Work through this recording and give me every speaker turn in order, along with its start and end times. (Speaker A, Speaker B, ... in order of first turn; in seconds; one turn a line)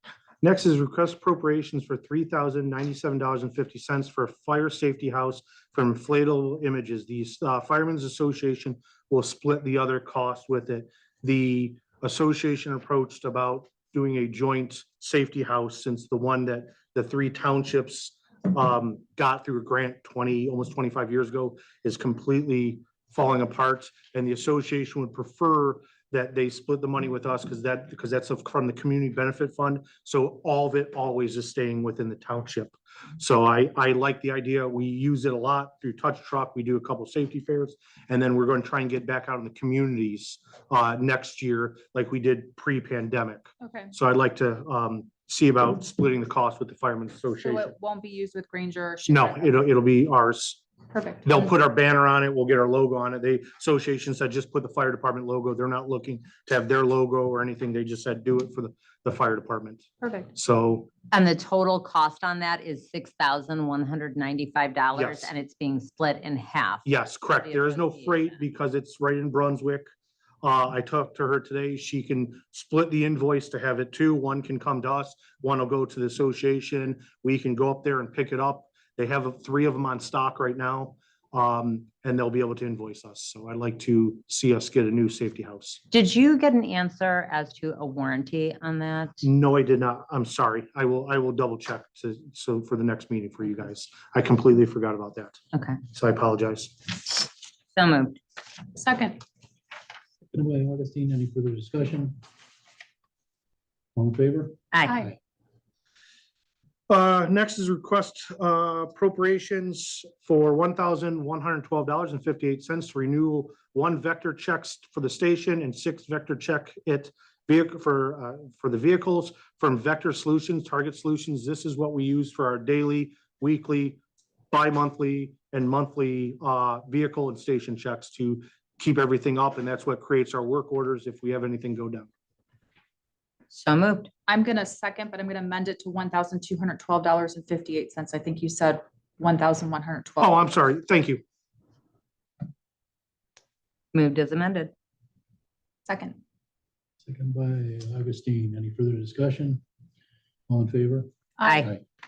Speaker A: 0.4-47.7
Speaker B: 43.6-43.9
Speaker B: 47.4-49.6
Speaker A: 49.1-50.6
Speaker B: 50.9-51.5
Speaker A: 51.2-60.9
Speaker B: 60.0-60.3
Speaker C: 61.1-68.4
Speaker A: 64.9-65.3
Speaker A: 66.8-69.9
Speaker A: 70.4-85.8
Speaker C: 85.9-89.2
Speaker A: 89.2-95.4
Speaker C: 95.5-95.8
Speaker A: 95.9-96.7
Speaker C: 97.7-98.2
Speaker B: 98.7-99.2
Speaker D: 100.3-102.2
Speaker D: 103.9-105.1
Speaker B: 104.8-105.1
Speaker A: 106.9-124.0
Speaker A: 124.5-132.1
Speaker C: 133.5-134.1
Speaker B: 134.3-140.4
Speaker A: 140.2-141.2
Speaker C: 143.9-144.7
Speaker B: 145.8-146.2
Speaker D: 147.0-149.6
Speaker D: 150.5-151.1
Speaker B: 151.4-151.7
Speaker C: 151.4-151.7